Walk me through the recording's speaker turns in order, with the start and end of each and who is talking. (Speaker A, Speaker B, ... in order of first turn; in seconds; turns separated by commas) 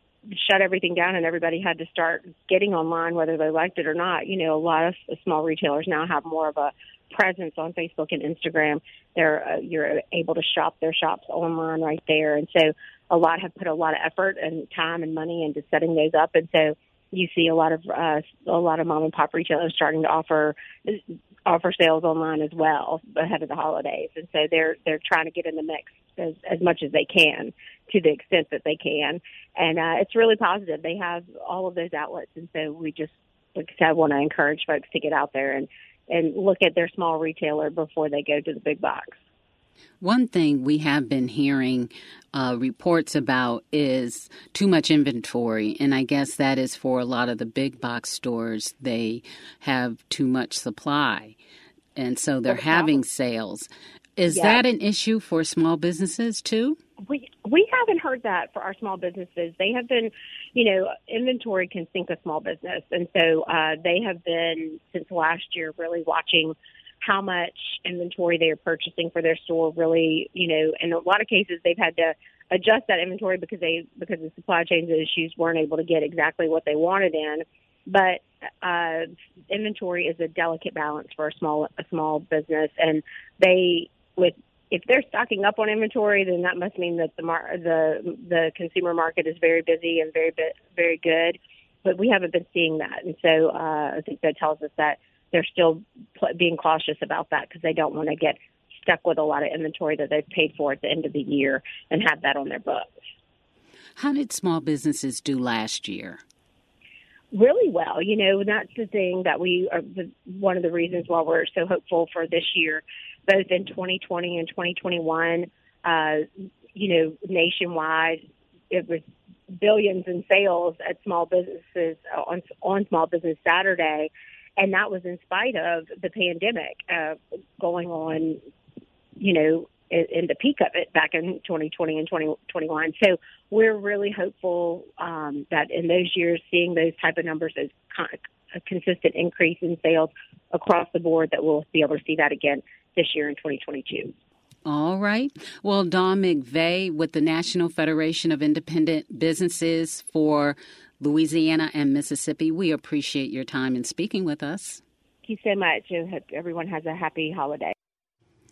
Speaker A: 0.3-39.2, Speaker B: 40.0-51.4, Speaker B: 52.0-56.8, Speaker A: 52.5-53.0, Speaker A: 54.3-54.6, Speaker A: 57.1-102.9, Speaker B: 104.0-106.2, Speaker A: 107.3-119.0, Speaker A: 119.6-128.4, Speaker A: 129.2-144.1, Speaker B: 144.7-154.8, Speaker A: 155.2-157.7